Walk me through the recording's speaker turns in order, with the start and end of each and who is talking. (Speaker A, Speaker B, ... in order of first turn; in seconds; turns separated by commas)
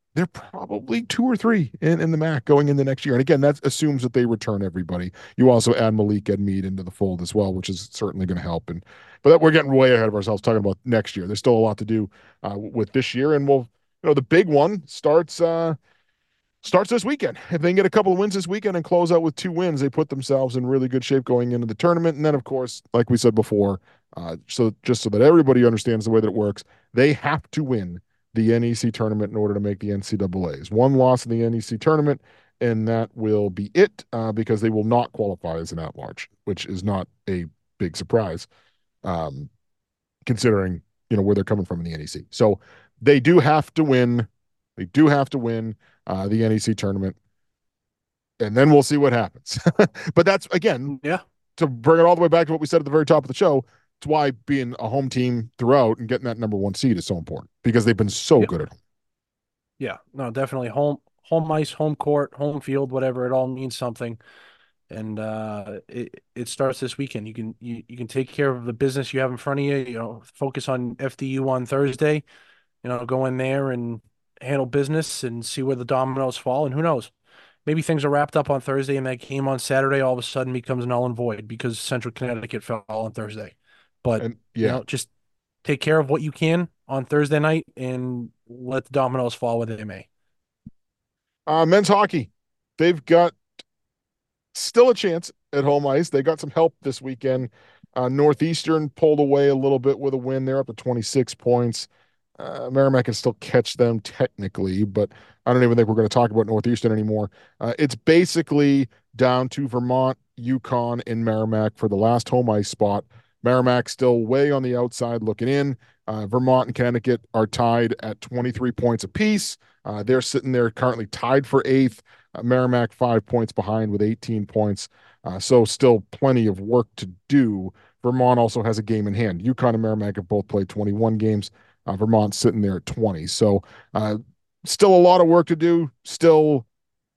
Speaker A: 0.1-15.8, Speaker A: 16.6-38.5, Speaker A: 39.0-39.5, Speaker A: 40.2-47.1, Speaker A: 48.4-51.0, Speaker B: 50.9-51.2, Speaker A: 51.6-58.8, Speaker B: 59.8-64.2, Speaker B: 64.9-72.2, Speaker B: 72.8-77.1, Speaker B: 77.7-85.1, Speaker A: 84.2-84.8, Speaker B: 85.6-90.1, Speaker A: 91.5-93.4, Speaker A: 94.5-136.7